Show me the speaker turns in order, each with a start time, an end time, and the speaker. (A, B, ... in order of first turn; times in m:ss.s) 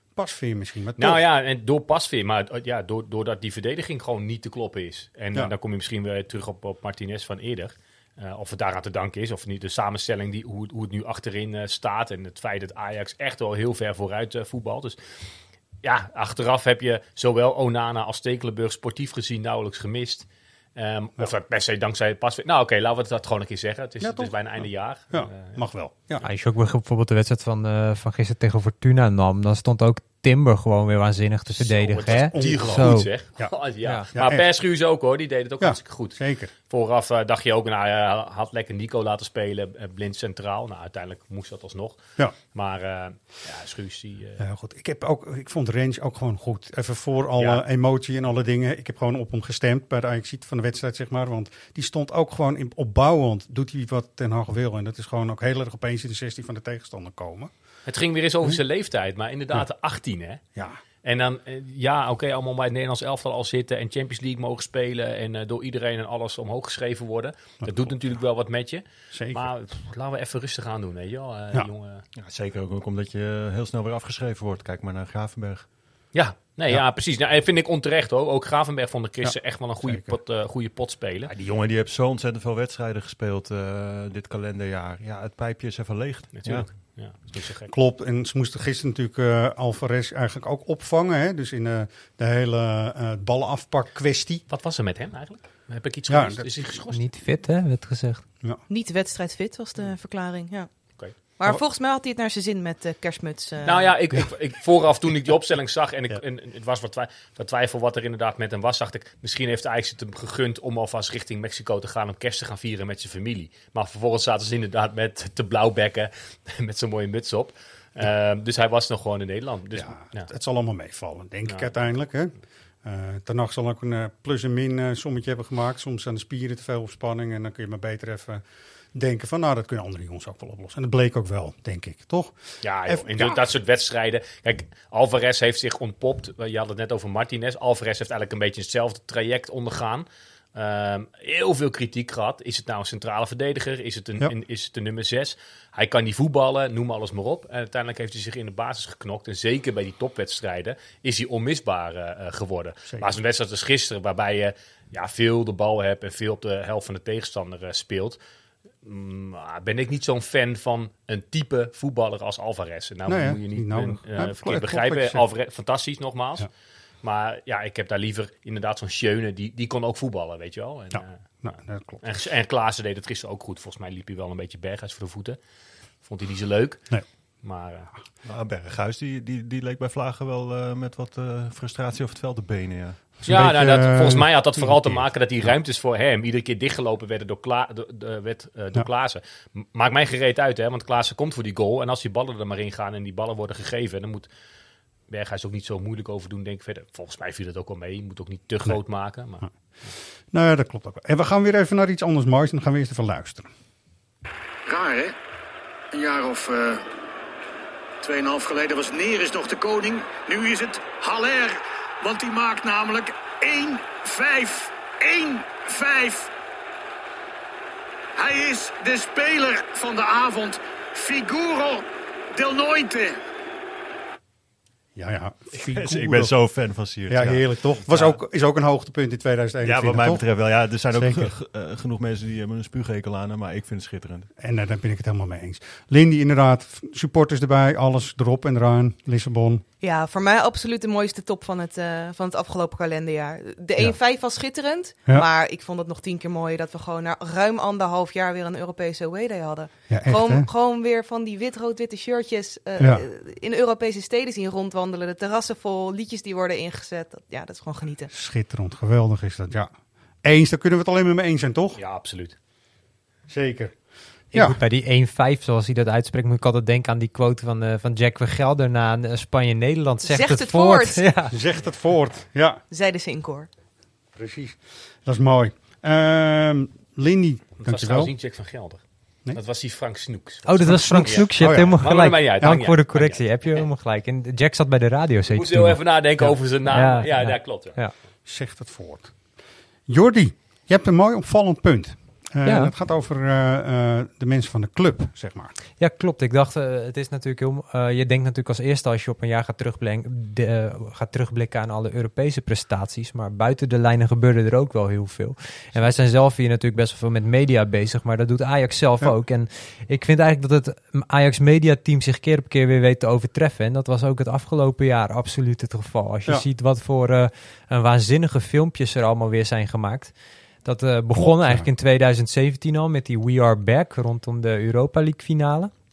0:00.2-0:01.2 A
0:01.0-0:15.0 B
0:15.8-0:25.6 B
0:24.0-0:24.3 A
0:25.1-0:26.2 A
0:26.2-0:33.1 C
0:31.6-0:36.2 B
0:32.1-0:33.5 A
0:34.1-0:34.4 A
0:35.6-0:36.5 A
0:36.7-0:42.0 B
0:42.5-0:44.4 B
0:44.4-0:57.5 A
0:57.9-1:00.4 B
1:00.5-1:00.8 A
1:01.0-1:12.0 B
1:09.1-1:09.5 A
1:12.2-1:15.6 D
1:16.1-1:21.3 B
1:19.2-1:20.2 A
1:21.3-1:26.7 D
1:26.4-1:27.7 B
1:27.7-1:34.4 A
1:34.5-1:37.0 B
1:36.1-1:36.5 A
1:36.9-1:38.2 C
1:38.7-1:40.7 E
1:41.4-1:43.9 E
1:43.6-2:00.3 B
1:59.8-2:08.4 A
2:01.5-2:01.7 B
2:08.9-2:12.4 A
2:12.6-2:38.2 B
2:12.9-2:13.4 A
2:38.8-2:46.5 B
2:43.0-2:45.2 A
2:47.0-2:51.1 B
2:50.9-2:52.0 A
2:52.0-2:55.4 B
2:56.0-2:57.9 B
2:58.2-3:03.1 D
3:03.2-3:05.0 A
3:03.3-3:14.3 B
3:15.1-3:19.9 B
3:20.3-3:23.5 A
3:24.7-3:25.1 F
3:26.0-3:26.8 F
3:28.0-3:36.2 F
3:38.2-3:41.8 F
3:42.4-3:43.2 F
3:45.0-3:46.3 A
3:45.6-3:48.1 D
3:47.1-3:50.2 A
3:49.6-3:54.3 D
3:50.9-3:51.3 A
3:54.4-3:59.6 A
3:59.8-4:18.1 E
4:09.9-4:10.5 A
4:12.8-4:13.0 A
4:18.1-4:19.7 A
4:20.2-4:21.8 A
4:21.8-4:22.4 B
4:23.3-4:23.8 A
4:24.3-4:24.6 A
4:24.3-4:31.4 C
4:30.0-4:31.0 E
4:31.3-4:32.6 A
4:32.7-4:33.5 E
4:34.1-4:38.1 A
4:37.6-4:43.2 B
4:40.4-4:47.9 C
4:40.6-4:41.8 A
4:45.3-4:47.8 B
4:48.2-4:49.1 A
4:49.9-4:55.5 A
4:52.4-4:52.7 C
4:55.8-5:25.7 C
5:21.2-5:21.6 A